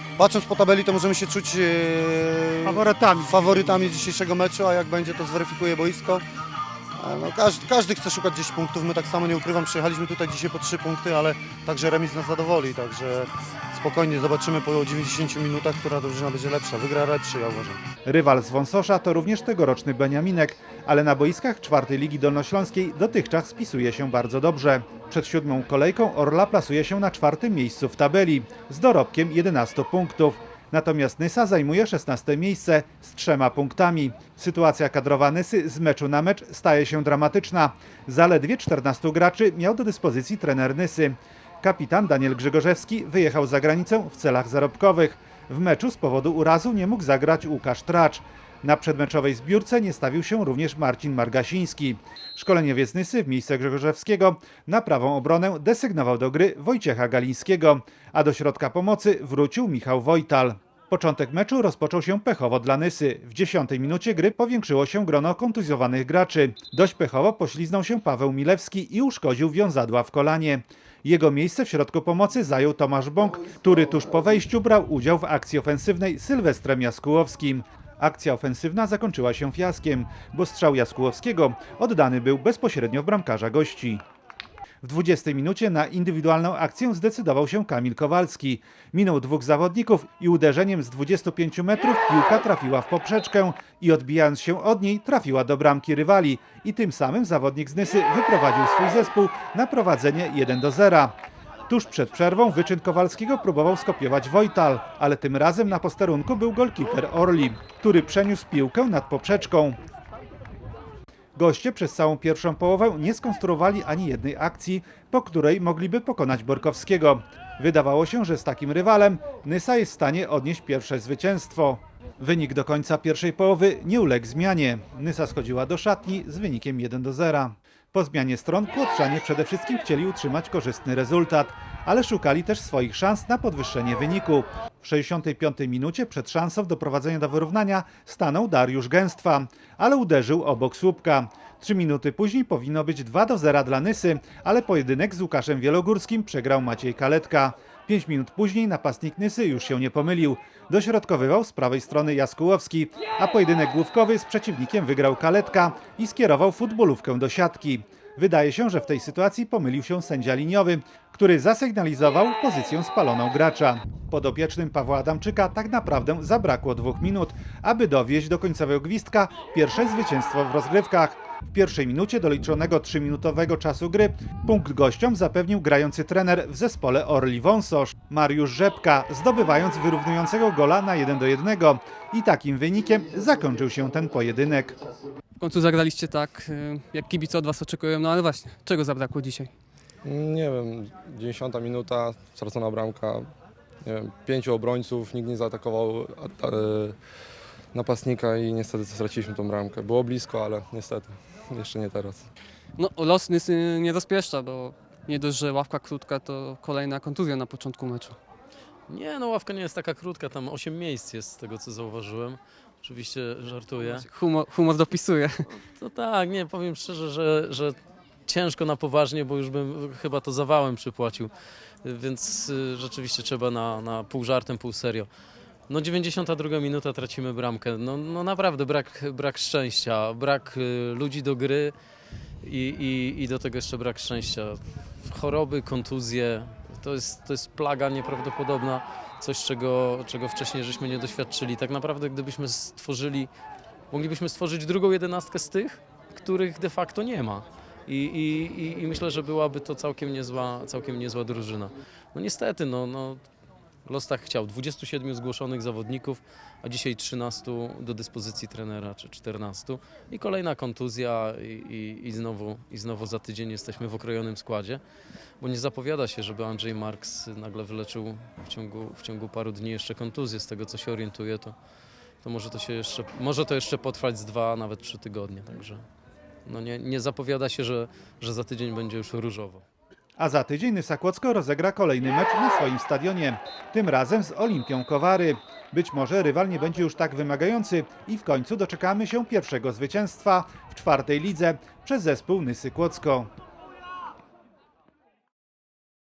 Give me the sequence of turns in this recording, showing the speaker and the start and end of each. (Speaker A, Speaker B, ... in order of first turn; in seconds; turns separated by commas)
Speaker A: 0.2-6.2, Speaker B: 2.6-3.7, Speaker A: 7.0-17.8, Speaker B: 18.0-84.0, Speaker B: 84.8-101.2, Speaker B: 101.7-109.8, Speaker B: 111.4-184.8, Speaker C: 185.4-189.5, Speaker D: 190.0-193.3, Speaker D: 193.8-197.0, Speaker D: 197.7-202.3, Speaker C: 202.8-208.2, Speaker E: 208.9-214.1, Speaker C: 213.8-215.4, Speaker E: 215.5-221.3, Speaker E: 221.8-225.1, Speaker E: 225.7-231.8, Speaker E: 232.4-243.3, Speaker E: 243.9-253.2, Speaker E: 253.9-264.8, Speaker E: 265.4-271.6, Speaker E: 272.2-275.8, Speaker E: 276.5-279.6, Speaker B: 280.2-293.3